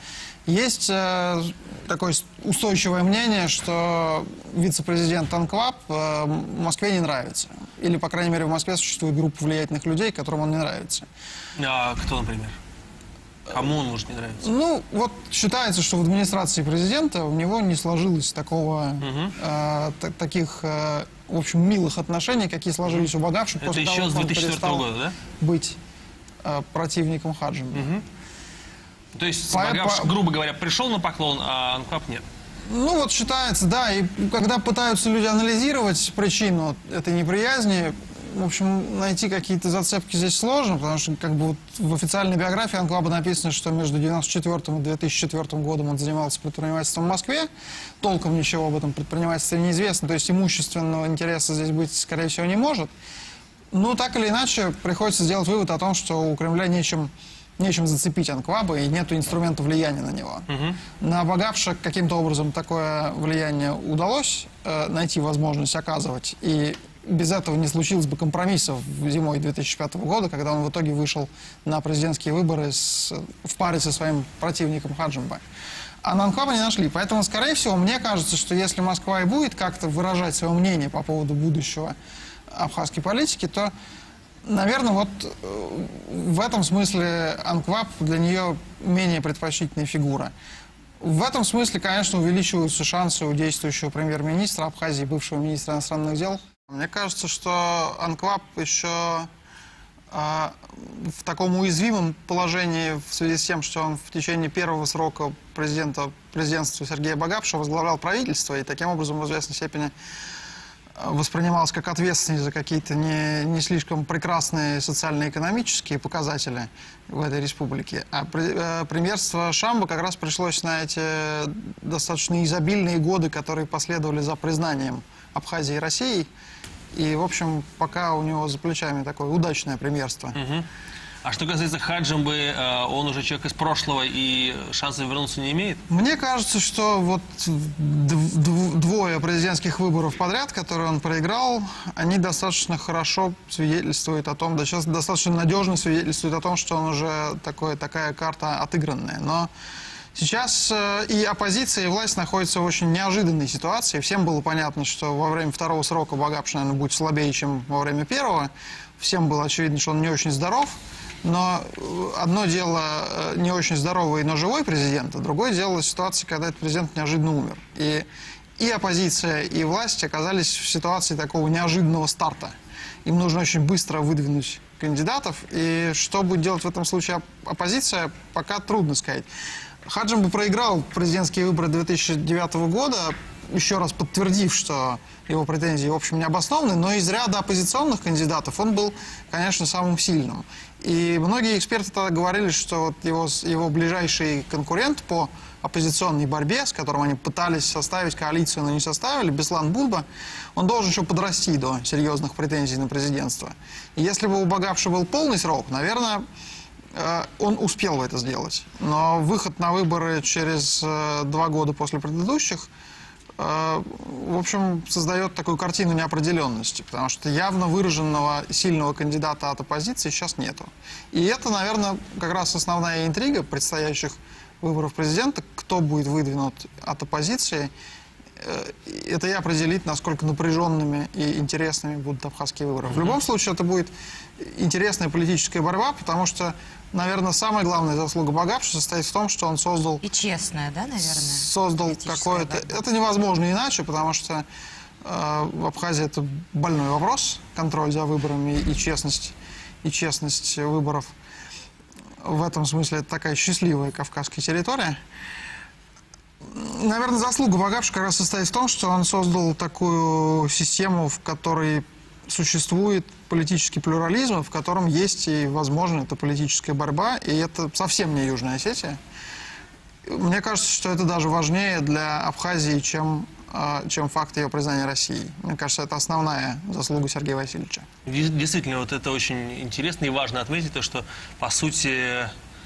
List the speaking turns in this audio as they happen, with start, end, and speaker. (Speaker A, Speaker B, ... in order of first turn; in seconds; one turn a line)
Speaker A: 0.5-11.1
Speaker B: 11.6-12.6
Speaker B: 13.5-14.5
Speaker A: 14.4-25.8
Speaker B: 19.0-19.3
Speaker B: 23.6-25.2
Speaker A: 26.4-27.9
Speaker B: 27.7-28.0
Speaker B: 29.1-32.2
Speaker A: 29.5-30.1
Speaker A: 32.7-47.5
Speaker A: 48.0-52.9
Speaker A: 53.7-75.4
Speaker B: 60.5-60.8
Speaker A: 76.0-81.9
Speaker A: 82.5-83.7
Speaker A: 84.4-90.3
Speaker A: 91.0-99.3
Speaker A: 100.1-109.9
Speaker A: 111.0-126.3
Speaker A: 126.9-130.4
Speaker B: 130.3-130.7
Speaker B: 131.2-135.8
Speaker A: 135.9-149.5
Speaker A: 150.1-168.1
Speaker A: 168.6-172.5
Speaker A: 173.0-179.3
Speaker A: 179.8-206.2
Speaker A: 206.9-212.7
Speaker A: 213.4-227.7
Speaker A: 228.4-240.0
Speaker B: 232.9-233.2
Speaker C: 240.0-242.7
Speaker A: 241.0-244.4
Speaker A: 245.0-251.1
Speaker A: 252.2-255.0
Speaker A: 256.4-269.0
Speaker A: 270.1-277.9
Speaker B: 278.1-282.3